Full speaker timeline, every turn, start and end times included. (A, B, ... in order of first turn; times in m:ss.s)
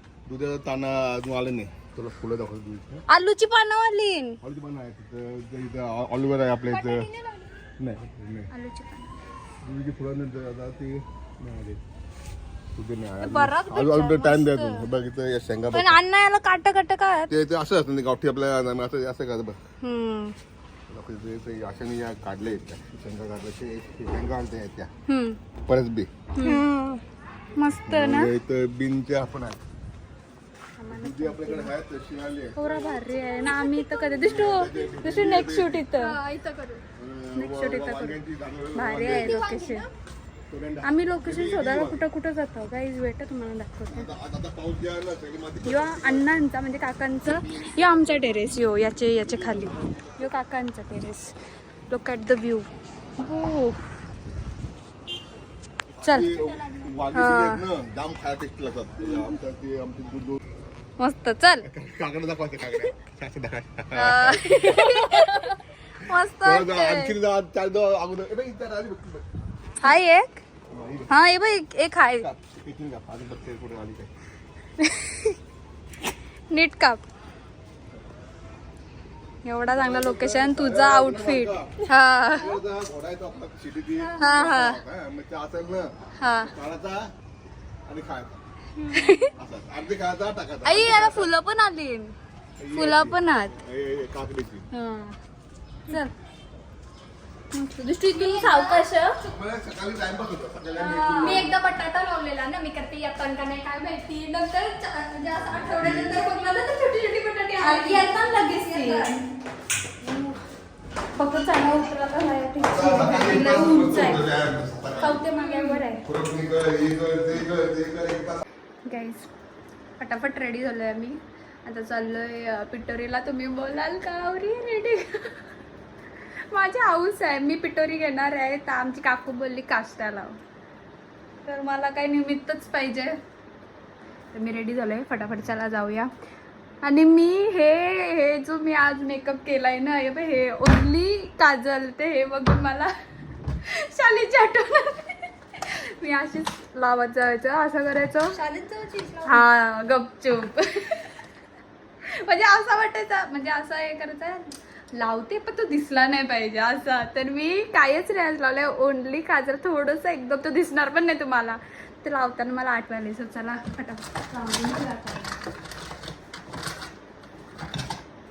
0:00.3-0:03.0 A
0:03.1-0:04.3 B
0:04.4-0:07.1 A
0:06.7-0:07.5 C
0:07.8-0:08.5 A
0:08.5-0:09.0 C
0:09.6-0:11.8 A
0:12.8-0:16.0 A
0:13.3-0:14.7 B
0:13.5-0:14.6 C
0:15.9-0:17.3 C
0:17.3-0:19.6 A
0:19.9-0:20.3 C
0:20.9-0:24.9 A
0:25.1-0:25.3 B
0:25.7-0:26.1 A
0:26.3-0:26.6 B
0:26.4-0:27.0 C
0:27.6-0:28.3 B
0:27.8-0:29.6 A
0:30.8-0:31.7 B
0:30.9-0:32.6 A
0:32.6-0:36.1 B
0:33.3-0:33.9 C
0:34.2-0:35.9 A
0:35.9-0:36.8 C
0:37.0-0:39.5 A
0:37.3-0:38.2 B
0:38.7-0:39.9 B
0:39.2-0:39.9 C
0:40.5-0:42.0 A
0:40.8-0:44.1 B
0:43.9-0:46.2 A
0:45.6-0:51.3 B
0:51.9-0:52.7 B
0:53.2-0:53.8 B
0:56.0-1:00.4 A
0:57.1-0:57.6 B
1:01.0-1:01.6 B
1:01.6-1:05.0 A
1:04.0-1:05.5 B
1:06.1-1:07.1 B
1:06.3-1:09.2 A
1:09.8-1:10.4 B
1:10.7-1:11.1 A
1:11.1-1:12.2 B
1:12.2-1:14.1 A
1:16.5-1:17.0 B
1:19.4-1:22.5 B
1:19.6-1:21.7 A
1:22.3-1:27.0 A
1:24.2-1:24.8 B
1:26.2-1:26.5 B
1:27.9-1:28.4 A
1:28.9-1:29.2 B
1:29.4-1:31.3 A
1:30.7-1:32.1 B
1:32.6-1:34.6 A
1:32.7-1:33.5 B
1:34.7-1:35.1 B
1:37.5-1:38.9 B
1:38.1-1:39.2 C
1:39.2-1:41.5 A
1:40.8-1:41.5 B
1:41.0-1:49.1 C
1:45.5-1:46.2 A
1:47.6-1:49.1 B
1:51.2-1:54.2 B
1:52.6-1:55.3 A
1:52.8-1:53.4 C
1:55.1-1:56.0 C
1:55.1-1:56.0 B
1:56.0-1:58.4 A
1:58.8-1:59.3 B
2:00.0-2:05.4 B
2:06.5-2:10.4 B
2:11.4-2:13.2 B
2:14.3-2:16.1 B
2:16.8-2:22.9 B
2:23.7-2:28.4 B
2:28.3-2:29.4 C
2:29.2-2:31.1 B
2:32.1-2:34.4 B
2:35.0-2:45.4 B